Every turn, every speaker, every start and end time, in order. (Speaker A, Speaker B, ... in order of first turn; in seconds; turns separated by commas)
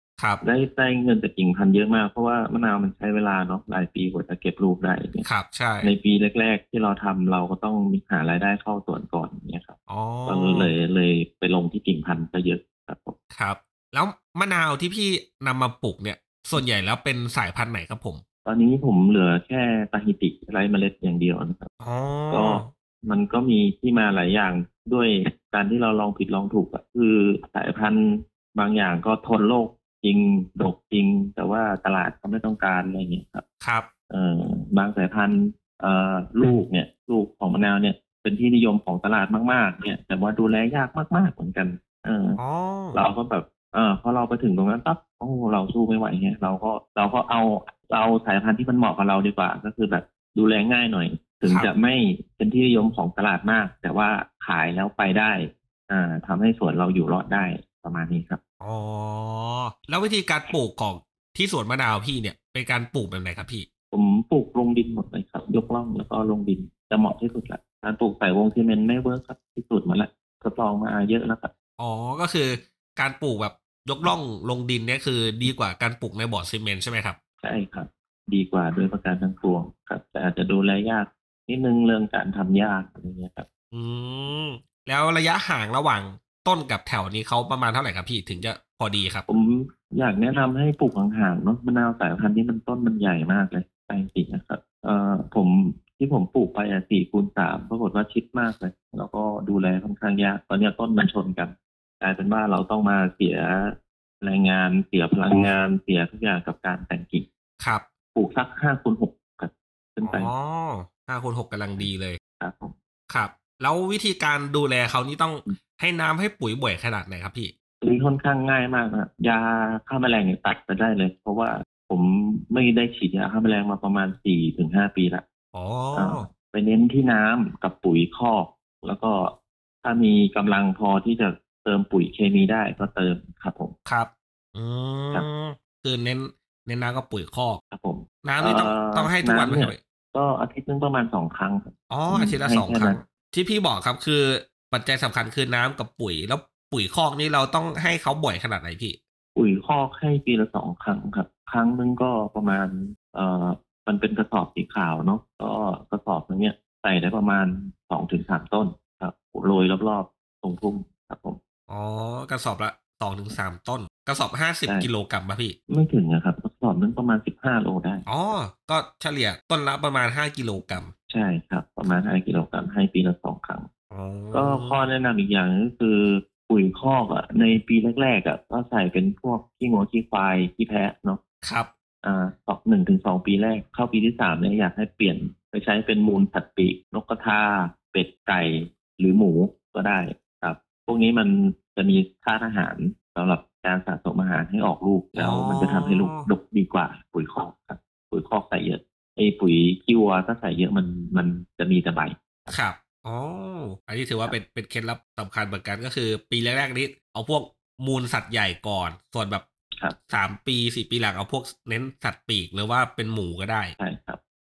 Speaker A: 0.2-0.4, Speaker B: 0.4-5.2, Speaker A: 5.2-5.9, Speaker B: 5.8-13.2, Speaker A: 9.9-10.7, Speaker A: 13.3-18.2, Speaker B: 18.4-21.7, Speaker A: 21.8-22.7, Speaker B: 22.3-33.4, Speaker A: 33.6-33.9, Speaker B: 34.1-42.4, Speaker A: 42.4-43.0, Speaker B: 42.9-58.4, Speaker A: 58.6-63.7, Speaker B: 63.9-71.5, Speaker A: 71.8-77.2, Speaker B: 77.4-83.5, Speaker A: 83.7-89.3, Speaker B: 89.3-107.2, Speaker A: 107.6-107.8, Speaker B: 108.1-110.3, Speaker A: 110.0-112.2, Speaker B: 112.4-112.7, Speaker A: 113.1-117.5, Speaker B: 117.8-125.2, Speaker A: 125.5-126.2, Speaker B: 125.9-133.7, Speaker A: 133.8-137.6, Speaker B: 137.7-143.0, Speaker A: 138.2-139.8, Speaker A: 141.9-149.0, Speaker B: 149.3-161.4, Speaker A: 161.7-165.6, Speaker B: 165.7-168.0, Speaker A: 168.1-170.9, Speaker B: 171.1-173.7, Speaker A: 173.9-174.8, Speaker B: 174.3-181.2, Speaker A: 181.4-181.7, Speaker B: 182.0-202.6, Speaker A: 195.1-196.2, Speaker A: 202.5-209.4, Speaker A: 210.1-213.7, Speaker B: 213.8-214.2